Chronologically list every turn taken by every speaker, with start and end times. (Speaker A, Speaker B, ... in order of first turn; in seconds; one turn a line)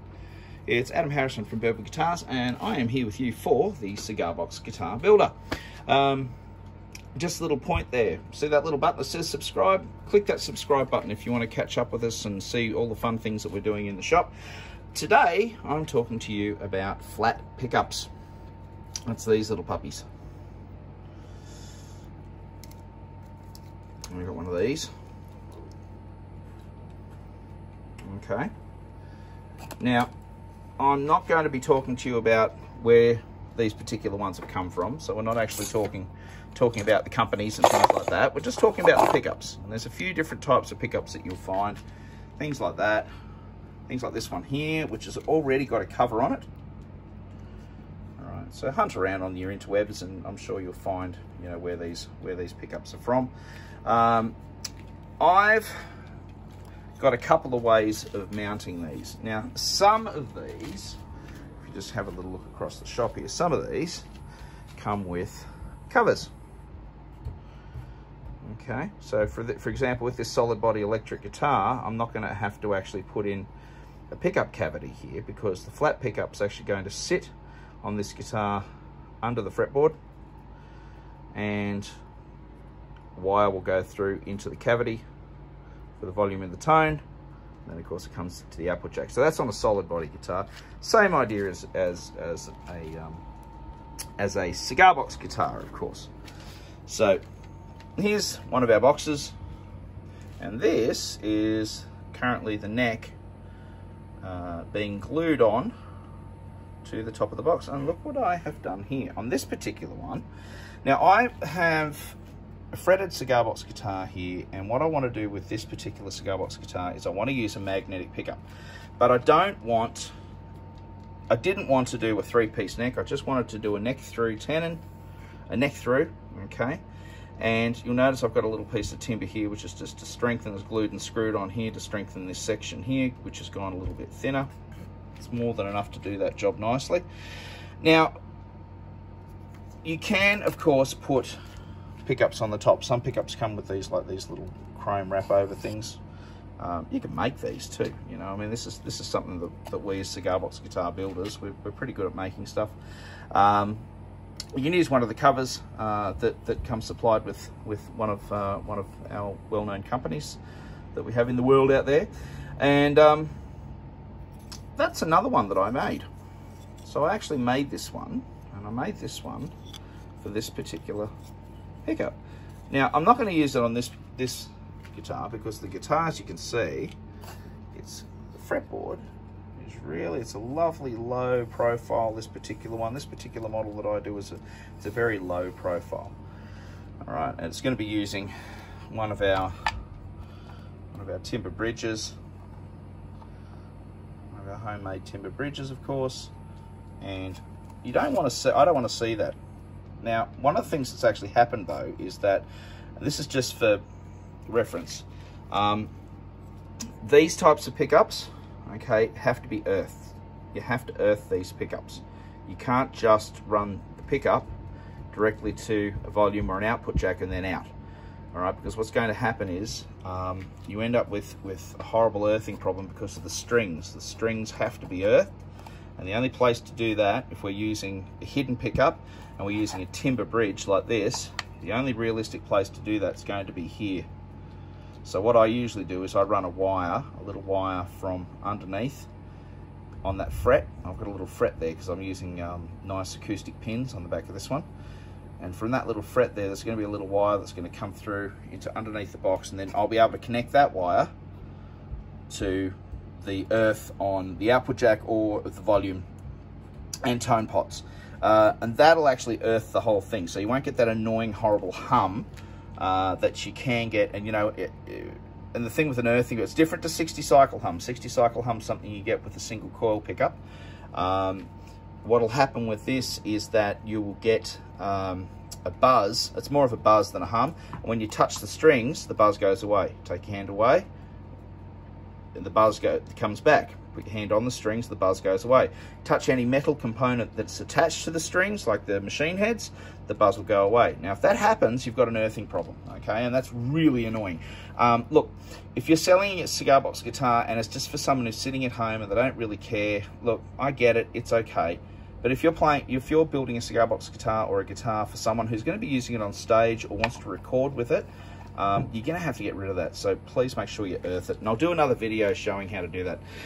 Speaker A: 0.7-5.3
Speaker A: 5.9-6.3
Speaker A: 7.1-14.3
Speaker A: 14.9-18.1
Speaker A: 19.1-20.1
Speaker A: 24.1-24.9
Speaker A: 28.1-28.5
Speaker A: 29.8-30.1
Speaker A: 30.8-41.8
Speaker A: 42.4-43.1
Speaker A: 43.9-46.5
Speaker A: 48.2-53.3
Speaker A: 53.8-54.4
Speaker A: 55.2-55.9
Speaker A: 57.0-61.0
Speaker A: 61.6-64.0
Speaker A: 64.8-66.3
Speaker A: 68.4-73.5
Speaker A: 74.1-78.6
Speaker A: 79.2-80.0
Speaker A: 81.3-81.9
Speaker A: 83.1-85.0
Speaker A: 86.0-87.0
Speaker A: 87.6-93.2
Speaker A: 94.2-96.1
Speaker A: 96.8-97.2
Speaker A: 98.0-99.3
Speaker A: 100.4-103.2
Speaker A: 104.2-105.7
Speaker A: 106.8-110.2
Speaker A: 110.8-112.2
Speaker A: 112.7-118.4
Speaker A: 119.0-120.1
Speaker A: 121.3-124.8
Speaker A: 125.5-126.8
Speaker A: 127.4-134.5
Speaker A: 135.2-137.1
Speaker A: 137.8-138.1
Speaker A: 139.8-141.4
Speaker A: 142.0-146.0
Speaker A: 146.6-152.8
Speaker A: 153.3-153.8
Speaker A: 154.5-160.4
Speaker A: 160.9-163.3
Speaker A: 164.8-166.1
Speaker A: 166.8-169.5
Speaker A: 170.2-171.1
Speaker A: 171.8-172.2
Speaker A: 172.7-176.9
Speaker A: 177.7-186.2
Speaker A: 187.0-188.3
Speaker A: 188.9-189.6
Speaker A: 190.9-192.2
Speaker A: 194.3-196.3
Speaker A: 197.0-199.4
Speaker A: 200.0-203.8
Speaker A: 204.5-205.9
Speaker A: 207.0-214.5
Speaker A: 215.1-217.7
Speaker A: 218.3-225.3
Speaker A: 226.0-234.1
Speaker A: 235.0-239.1
Speaker A: 240.0-244.7
Speaker A: 245.4-251.1
Speaker A: 252.3-256.1
Speaker A: 257.0-270.4
Speaker A: 270.9-271.5
Speaker A: 272.0-280.9
Speaker A: 282.3-313.2